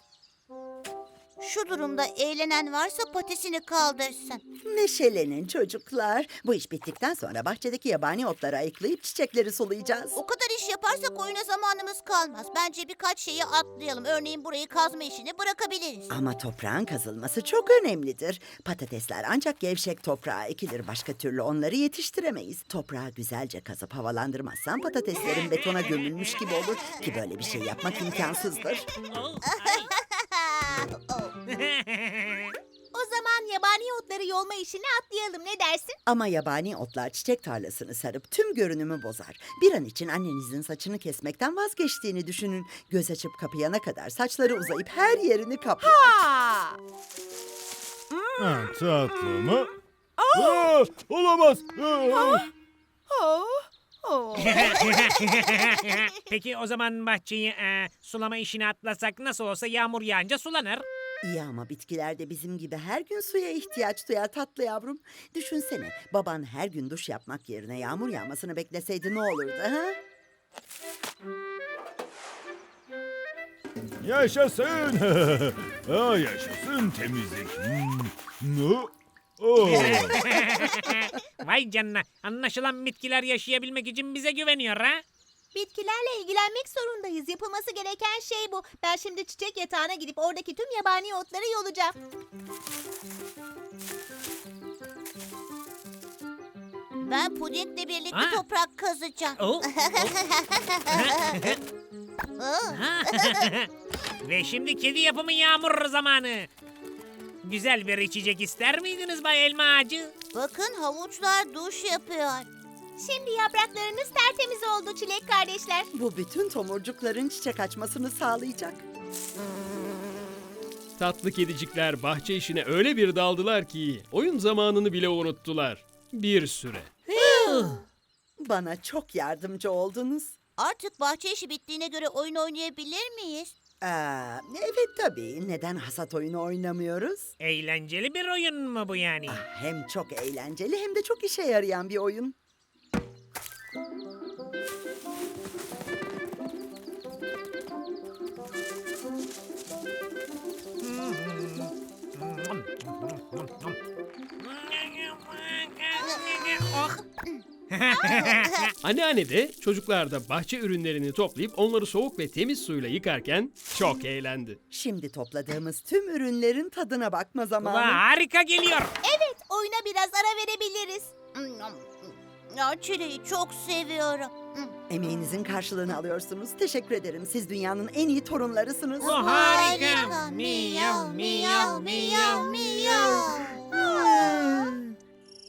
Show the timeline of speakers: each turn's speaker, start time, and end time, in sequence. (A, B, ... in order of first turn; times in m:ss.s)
0:01.4-0:04.4 A
0:04.6-0:10.2 B
0:10.2-0:16.1 A
0:16.1-0:28.9 B
0:29.1-0:29.9 C
0:29.4-0:31.3 A
0:31.5-0:32.5 C
0:32.9-0:36.0 D
0:36.0-0:46.2 B
0:45.8-0:46.8 E
0:48.1-0:49.5 E
0:48.4-0:49.7 F
0:50.2-0:50.7 E
0:50.3-0:52.5 F
0:52.1-0:52.5 E
0:53.1-0:54.6 E
0:54.4-1:00.8 C
0:54.6-0:54.9 A
1:01.2-1:10.0 B
1:14.0-1:20.2 F
1:19.7-1:25.0 C
1:25.5-1:32.0 D
1:37.0-1:41.6 A
1:38.1-1:38.4 C
1:39.4-1:40.1 C
1:40.9-1:41.6 C
1:42.4-1:43.5 A
1:42.7-1:43.7 C
1:44.2-1:46.5 C
1:47.4-1:50.1 C
1:50.3-1:52.5 A
1:53.0-1:55.9 D
1:55.9-1:58.8 B
2:01.0-2:06.9 G
2:07.1-2:07.7 B
2:07.2-2:07.8 A
2:07.3-2:07.7 C
2:08.4-2:10.4 B
2:10.6-2:13.5 A
2:13.8-2:17.3 B
2:17.4-2:19.4 C
2:19.3-2:22.4 B
2:30.8-2:33.7 C
2:34.4-2:37.0 C
2:36.0-2:36.8 A
2:37.7-2:38.7 C
2:37.9-2:38.7 A
2:38.8-2:44.6 G
2:44.7-2:48.0 B
2:47.6-2:48.9 C
2:49.0-2:51.1 D
2:51.3-2:54.7 A
2:54.9-2:59.2 B
2:59.0-3:02.8 C
2:59.0-3:04.7 A